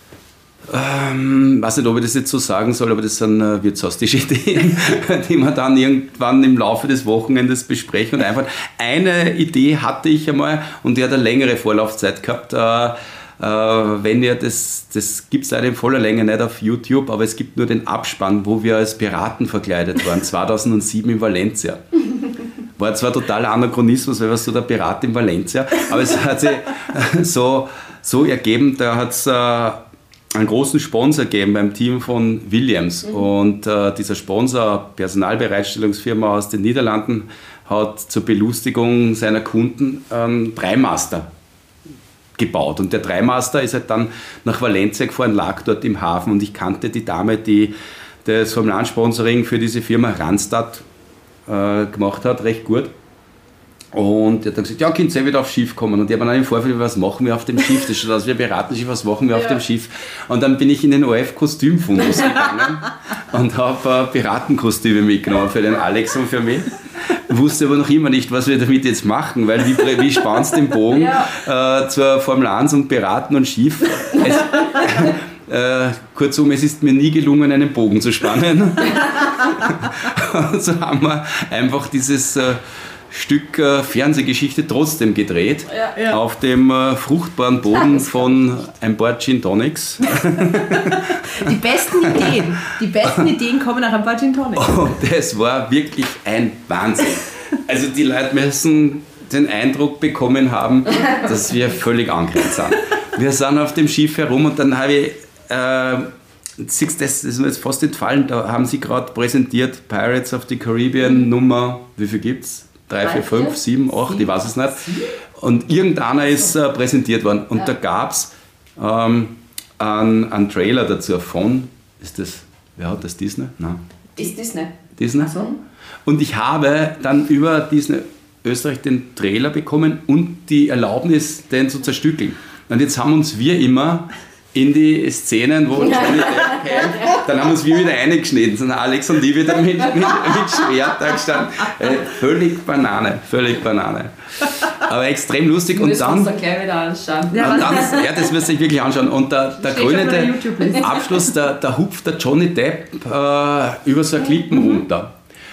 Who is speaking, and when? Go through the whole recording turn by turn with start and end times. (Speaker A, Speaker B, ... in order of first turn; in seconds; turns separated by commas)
Speaker A: 0.7-22.0, Speaker A: 22.8-41.3, Speaker A: 42.4-50.8, Speaker A: 51.5-52.9, Speaker A: 53.9-92.4, Speaker B: 85.9-86.2, Speaker B: 90.2-94.8, Speaker A: 94.5-123.8, Speaker B: 113.0-113.5, Speaker B: 114.1-114.3, Speaker C: 124.2-124.7, Speaker A: 125.0-125.4, Speaker B: 125.2-125.5, Speaker A: 126.0-146.3, Speaker C: 145.8-147.6, Speaker B: 147.3-148.1, Speaker A: 147.3-155.1, Speaker B: 149.6-151.2